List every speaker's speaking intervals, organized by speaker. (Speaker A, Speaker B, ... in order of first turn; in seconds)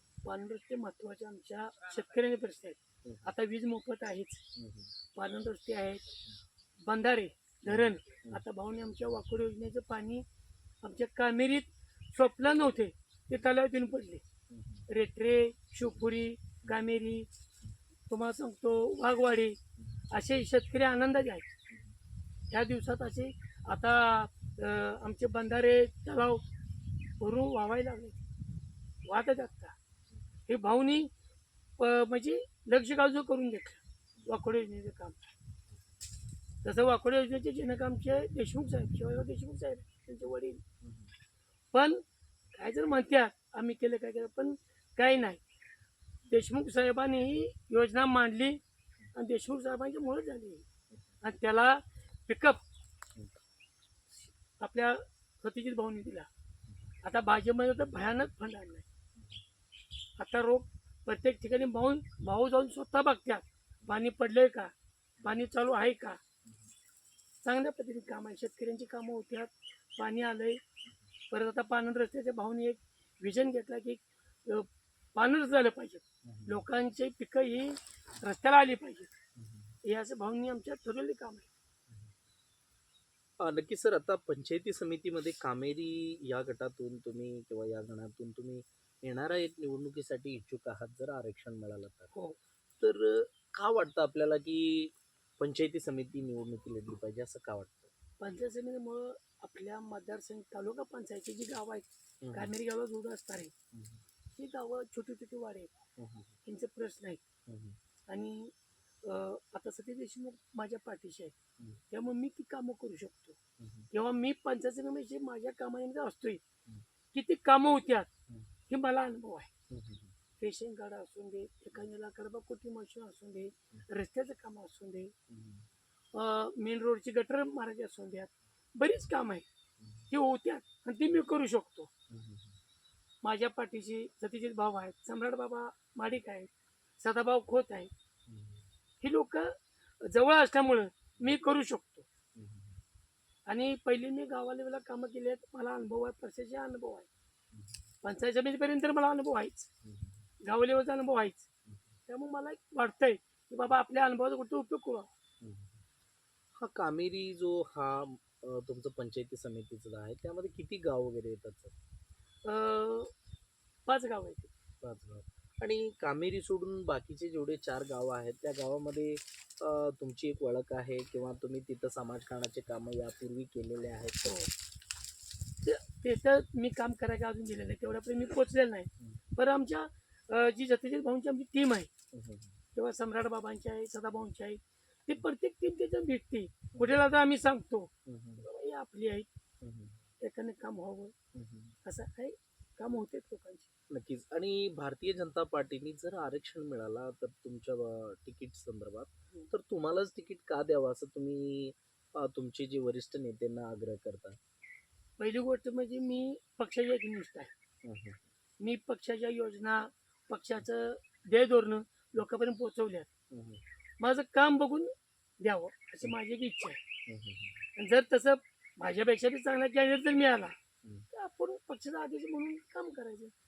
Speaker A: 0.2-4.4, 5.2-6.0, 6.9-10.3, 10.8-14.2, 14.9-17.3, 18.1-19.6, 20.1-21.5, 22.5-26.4, 27.2-28.2, 29.1-29.8, 30.5-31.1, 31.8-35.3, 36.6-40.6, 41.7-42.0, 42.5-45.4, 46.3-48.6, 49.1-50.6, 51.2-52.6, 54.6-56.3, 57.0-58.9, 60.2-66.2, 67.4-70.6, 71.3-79.1, 79.8-81.5, 98.2-103.5, 104.3-105.7, 106.4-107.2, 108.1-111.3, 111.9-113.4, 113.9-116.4, 117.1-118.1, 118.7-119.5, 120.4-125.1, 126.1-129.5, 130.1-131.9, 133.2-137.9, 139.0-142.1, 143.5-147.1, 148.0-149.7, 150.4-151.5, 152.1-155.1, 162.4-163.1, 163.9-164.5, 174.2-174.5, 175.6-181.9, 182.8-187.9, 188.4-189.3, 190.2-191.1, 191.8-193.7, 205.2-207.5, 208.6-213.1, 214.0-214.9, 215.4-216.8, 217.8-220.6, 221.1-223.3
Speaker B: 4.6-4.9, 7.7-8.4, 14.5-14.8, 76.3-76.6, 83.4-92.1, 92.8-97.9, 102.2-102.5, 103.7-104.0, 106.0-106.3, 107.5-107.8, 113.6-113.9, 119.7-120.1, 125.3-125.7, 132.1-132.5, 138.3-138.6, 142.4-142.7, 155.4-155.7, 156.6-161.8, 164.8-174.4, 182.1-182.6, 188.1-188.5, 189.6-190.0, 191.3-191.8, 193.9-204.4, 207.8-208.2, 213.3-213.6, 217.1-217.6